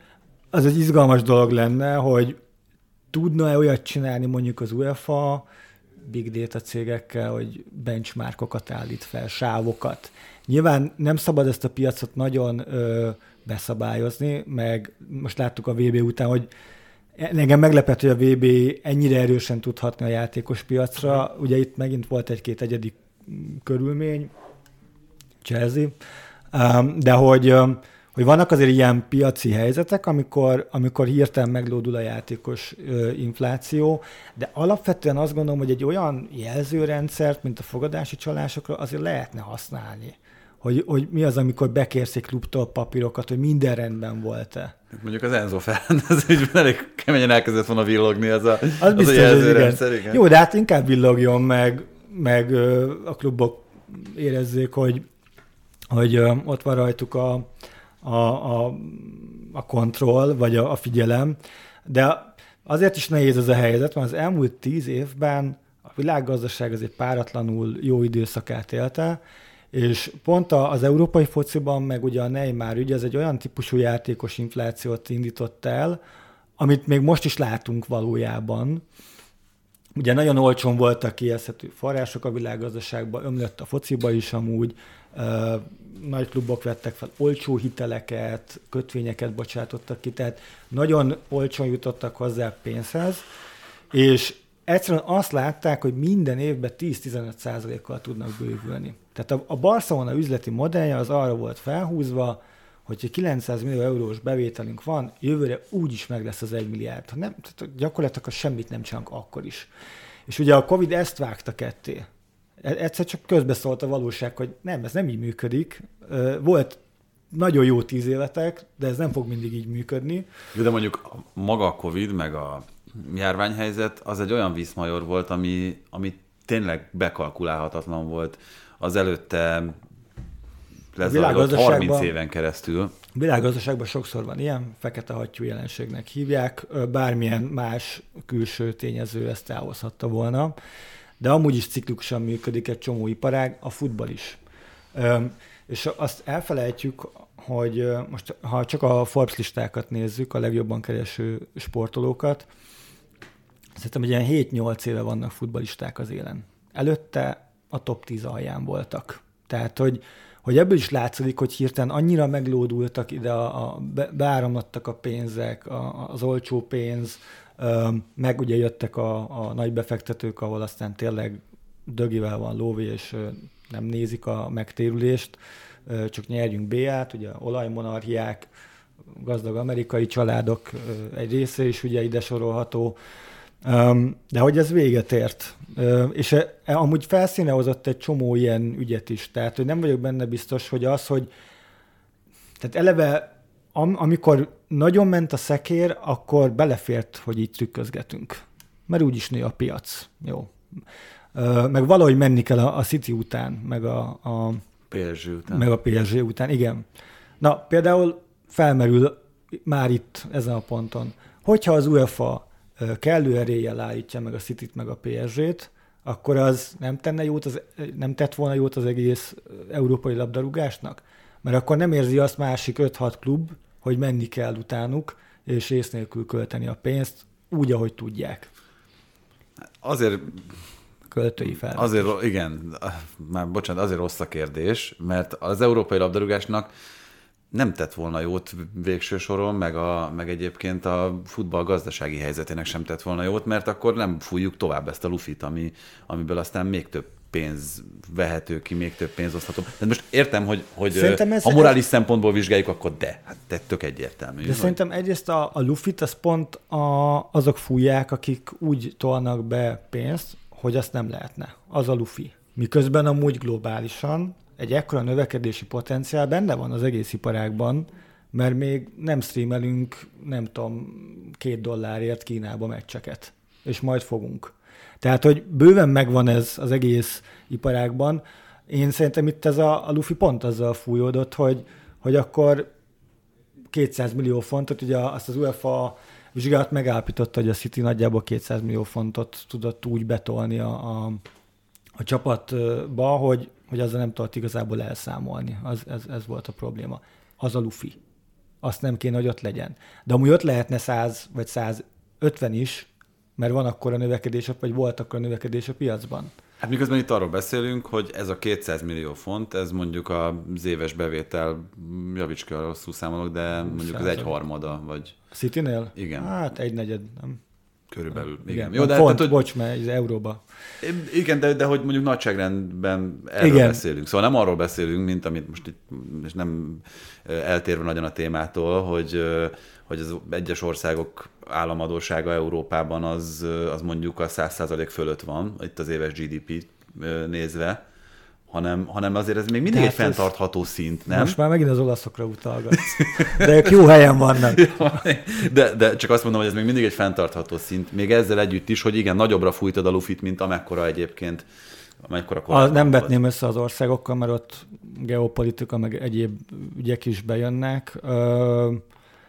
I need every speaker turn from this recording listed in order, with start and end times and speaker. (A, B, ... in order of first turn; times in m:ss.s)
0:00.5-0:02.4 A
0:03.1-0:05.4 A
0:06.0-0:16.5 A
0:17.2-0:24.3 A
0:25.4-0:25.9 A
0:26.5-0:44.7 A
0:44.9-0:50.2 B
0:48.8-0:55.0 A
0:55.9-0:57.5 A
0:58.0-1:09.2 A
1:09.7-1:16.0 A
1:16.6-1:18.8 A
1:20.0-1:33.2 A
1:33.9-1:49.7 A
1:50.3-1:52.1 A
1:52.6-1:56.8 A
1:57.3-2:00.3 A
2:00.5-2:09.8 B
2:10.9-2:12.9 B
2:11.0-2:12.1 A
2:13.1-2:20.5 A
2:21.2-2:24.4 A
2:24.9-2:32.5 A
2:33.8-2:58.5 A
2:59.1-3:03.0 A
3:03.6-3:11.3 A
3:12.6-3:20.6 A
3:21.3-3:24.6 A
3:24.9-3:25.7 B
3:25.5-3:26.8 A
3:27.4-3:48.5 A
3:49.8-3:50.5 B
3:51.1-3:52.1 A
3:51.6-3:56.7 B
3:57.5-4:14.8 B
4:10.9-4:11.8 A
4:14.4-4:42.7 A
4:43.7-4:51.2 A
4:52.0-4:58.0 A
4:58.6-5:06.3 A
5:06.6-5:15.2 B
5:13.7-5:14.3 A
5:15.3-5:17.4 A
5:16.0-5:16.3 B
5:17.9-5:19.4 B
5:18.4-5:20.4 A
5:20.8-5:37.8 B
5:23.4-5:23.8 A
5:38.5-5:41.4 B
5:39.7-5:40.3 A
5:41.1-5:44.8 A
5:42.7-5:43.7 B
5:44.5-5:51.4 B
5:52.0-5:53.1 B
5:52.5-5:58.8 A